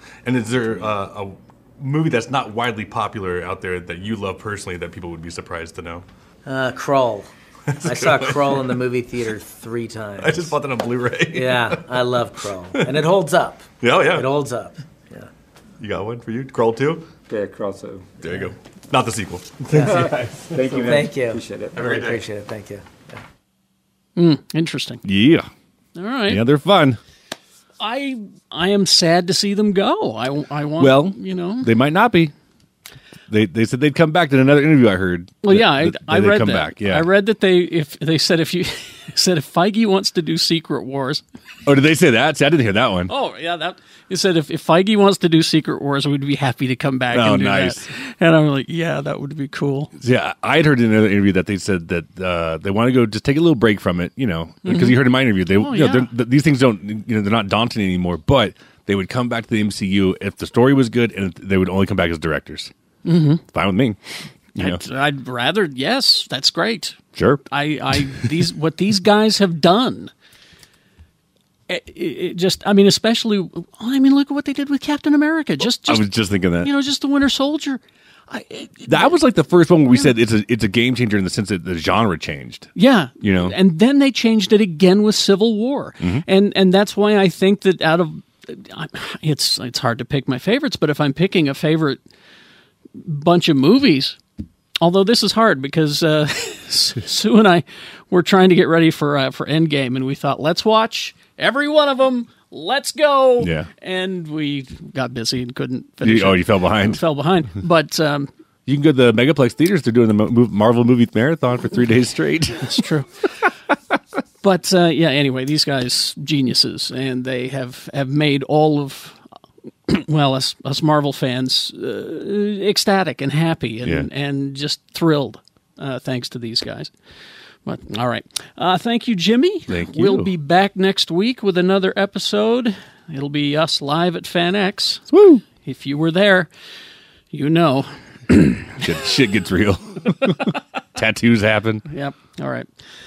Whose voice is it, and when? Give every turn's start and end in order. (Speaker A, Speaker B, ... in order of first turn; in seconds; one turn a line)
Speaker A: 0.3-6.0
Speaker B: 6.4-7.3
Speaker A: 7.7-8.8
Speaker B: 7.8-10.6
Speaker A: 10.2-11.8
Speaker B: 11.3-15.3
Speaker A: 12.7-13.0
Speaker A: 13.8-14.3
Speaker A: 15.8-17.1
Speaker C: 17.3-18.1
Speaker A: 18.2-21.0
Speaker B: 19.7-20.1
Speaker C: 19.8-22.1
Speaker B: 20.7-23.2
Speaker A: 21.8-22.2
Speaker D: 24.1-25.0
Speaker E: 25.0-25.5
Speaker D: 25.9-26.4
Speaker E: 26.3-27.0
Speaker D: 27.8-31.7
Speaker E: 30.8-32.3
Speaker E: 33.3-37.1
Speaker D: 35.4-41.2
Speaker E: 41.7-43.1
Speaker D: 43.1-49.9
Speaker E: 47.1-47.9
Speaker E: 50.0-62.7
Speaker D: 54.6-55.0
Speaker D: 55.5-56.1
Speaker D: 63.0-63.4
Speaker E: 63.5-64.0
Speaker E: 64.6-64.8
Speaker D: 64.6-67.0
Speaker E: 67.2-67.4
Speaker D: 67.5-70.1
Speaker D: 71.7-79.2
Speaker E: 75.8-76.7
Speaker E: 78.9-83.6
Speaker D: 82.7-92.0
Speaker E: 86.0-86.2
Speaker D: 93.0-94.2
Speaker D: 94.8-108.3
Speaker E: 103.4-103.7
Speaker E: 106.0-107.0
Speaker E: 108.7-112.8
Speaker D: 112.6-113.1
Speaker D: 114.4-119.2
Speaker D: 119.9-126.9
Speaker E: 123.8-124.1
Speaker D: 127.7-135.1
Speaker E: 129.7-130.3
Speaker E: 135.1-135.4
Speaker D: 135.6-136.5
Speaker D: 137.3-138.8
Speaker E: 138.8-141.8
Speaker D: 141.9-142.7